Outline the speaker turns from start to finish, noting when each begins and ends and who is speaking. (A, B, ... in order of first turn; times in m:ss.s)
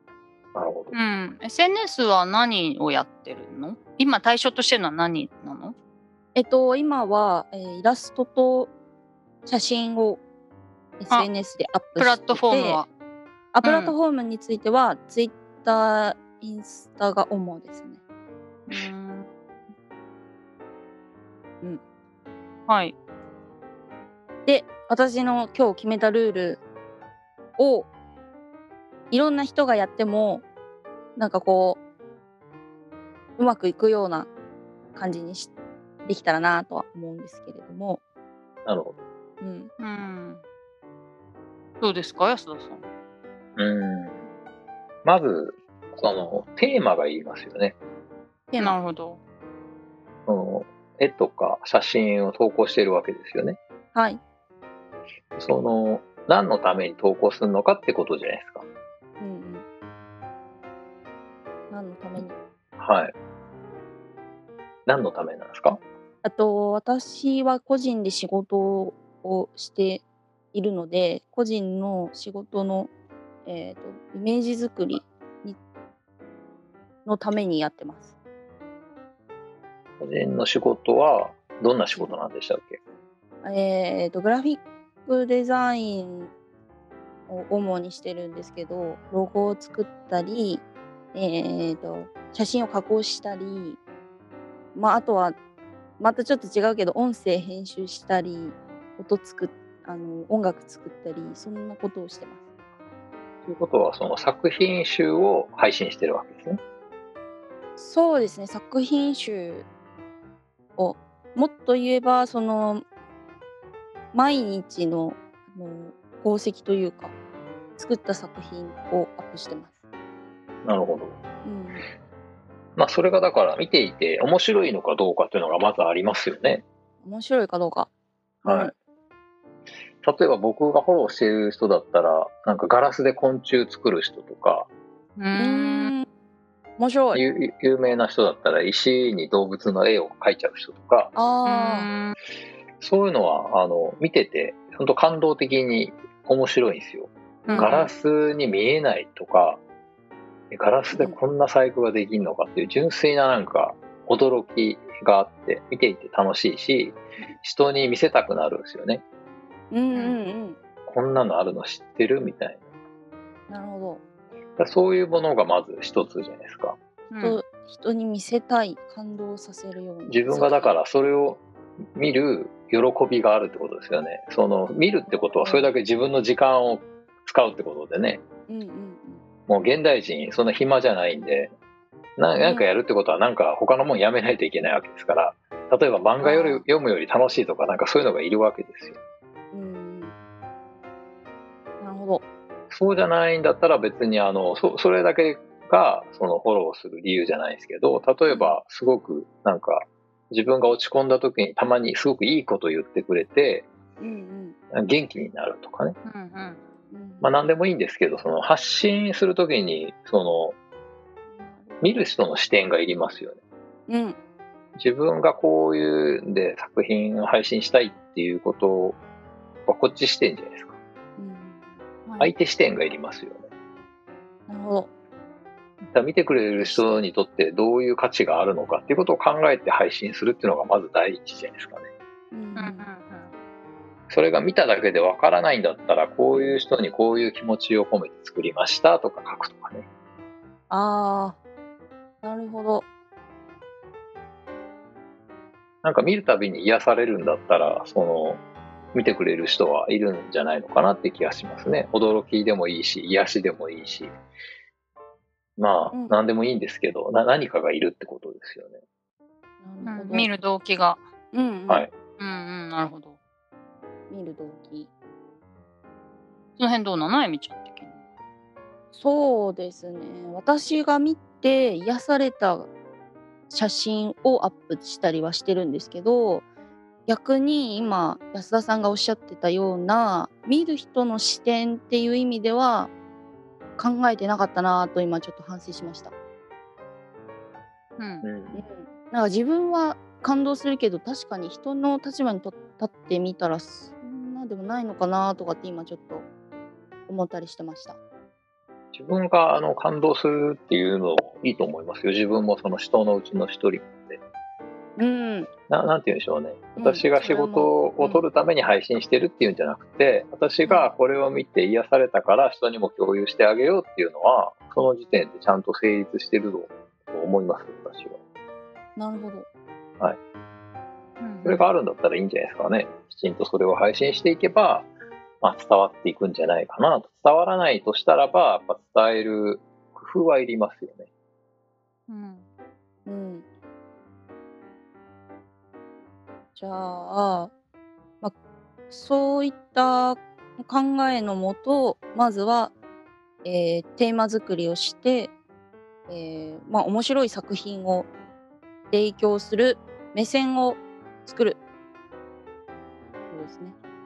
0:00.5-0:00.9 A
0:00.9-0:05.7 B
0:06.3-0:08.7 C
0:09.4-0:10.2 C
0:11.0-0:12.8 C
0:12.0-0:12.9 B
0:13.5-0:18.0 C
0:13.6-0:13.9 B
0:18.7-0:19.3 B
0:22.7-0:22.9 B
0:24.4-0:26.6 C
0:27.6-0:27.9 C
0:29.1-0:30.4 C
0:31.2-0:31.8 C
0:33.4-0:34.3 C
0:34.9-0:35.5 C
0:36.0-0:38.0 C
0:38.6-0:39.0 A
0:39.4-0:39.7 C
0:39.8-0:40.4 B
0:41.8-0:42.8 B
0:43.6-0:44.3 A
0:45.0-0:47.7 A
0:48.5-0:48.8 C
0:48.6-0:49.2 B
0:50.3-0:53.6 A
0:53.9-0:54.2 C
0:55.4-0:58.6 A
0:59.2-0:59.6 C
1:01.7-1:02.4 C
1:02.8-1:03.1 A
1:04.8-1:05.8 A
1:06.2-1:12.9 C
1:13.4-1:15.6 C
1:17.0-1:18.1 C
1:20.0-1:22.8 A
1:23.4-1:26.3 C
1:27.3-1:33.8 C
1:34.7-1:35.4 C
1:36.0-1:42.4 C
1:43.4-1:46.6 A
1:47.8-1:49.6 C
1:50.8-1:52.8 C
1:54.1-1:57.1 C
1:57.8-1:59.8 C
2:00.6-2:01.2 A
2:01.4-2:01.8 C
2:02.8-2:06.6 A
2:07.0-2:07.9 C
2:08.4-2:08.7 C
2:08.4-2:08.7 A
2:10.0-2:14.7 A
2:15.2-2:15.9 B
2:15.3-2:16.1 C
2:16.8-2:17.2 C
2:17.1-2:21.1 A
2:21.1-2:21.9 C
2:21.4-2:22.1 B
2:22.8-2:29.6 A
2:27.4-2:27.9 B
2:27.5-2:27.8 C
2:30.5-2:39.0 A
2:30.9-2:31.2 C
2:39.7-2:40.6 C
2:40.9-2:42.6 A
2:43.5-2:44.0 C
2:44.6-2:46.8 A
2:47.1-2:47.4 B
2:47.2-2:50.7 C
2:50.1-2:51.4 A
2:52.0-2:58.2 A
2:55.1-2:55.7 C
2:58.5-2:59.2 C
2:59.5-3:01.5 A
3:02.2-3:09.0 A
3:02.4-3:02.7 C
3:06.2-3:06.6 C
3:09.5-3:10.1 C
3:11.8-3:12.2 C
3:12.7-3:23.7 A
3:18.3-3:18.6 C
3:24.0-3:24.6 C
3:24.7-3:26.0 A
3:26.0-3:26.6 B
3:26.9-3:27.3 C
3:27.2-3:30.5 A
3:31.3-3:31.8 C
3:31.8-3:33.4 A
3:33.9-3:34.2 C
3:34.8-3:39.0 A
3:39.7-3:40.8 A
3:41.2-3:41.7 C
3:42.0-3:42.3 B
3:42.2-3:43.5 A
3:44.5-3:44.9 C
3:45.9-3:51.9 A
3:46.6-3:47.0 C
3:52.3-3:52.9 C
3:52.6-3:53.3 B
3:54.1-3:59.8 A
4:00.7-4:01.4 C
4:02.2-4:02.8 C
4:05.8-4:08.4 A
4:08.9-4:14.1 A
4:15.6-4:18.8 A
4:19.6-4:20.3 C
4:19.8-4:21.0 B
4:21.3-4:21.8 C
4:22.2-4:23.2 B
4:24.1-4:24.9 C
4:26.6-4:28.0 B
4:28.9-4:32.7 C
4:33.5-4:36.4 C
4:37.1-4:42.9 C
4:43.8-4:46.1 C
4:48.0-4:48.2 B
4:48.2-4:48.6 A
4:48.5-4:56.3 C
4:57.1-4:58.0 C
4:58.9-5:04.2 A
5:05.0-5:05.5 C
5:05.7-5:18.2 A
5:06.8-5:08.2 C
5:10.6-5:10.9 C
5:19.0-5:19.5 C
5:21.2-5:21.7 B
5:21.4-5:24.9 A
5:25.4-5:31.1 A
5:32.1-5:32.4 B
5:33.0-5:33.4 C
5:36.5-5:37.5 C
5:38.9-5:42.7 C
5:43.4-5:45.3 C
5:46.1-5:48.1 C
5:48.9-5:51.6 C
5:53.3-5:53.7 C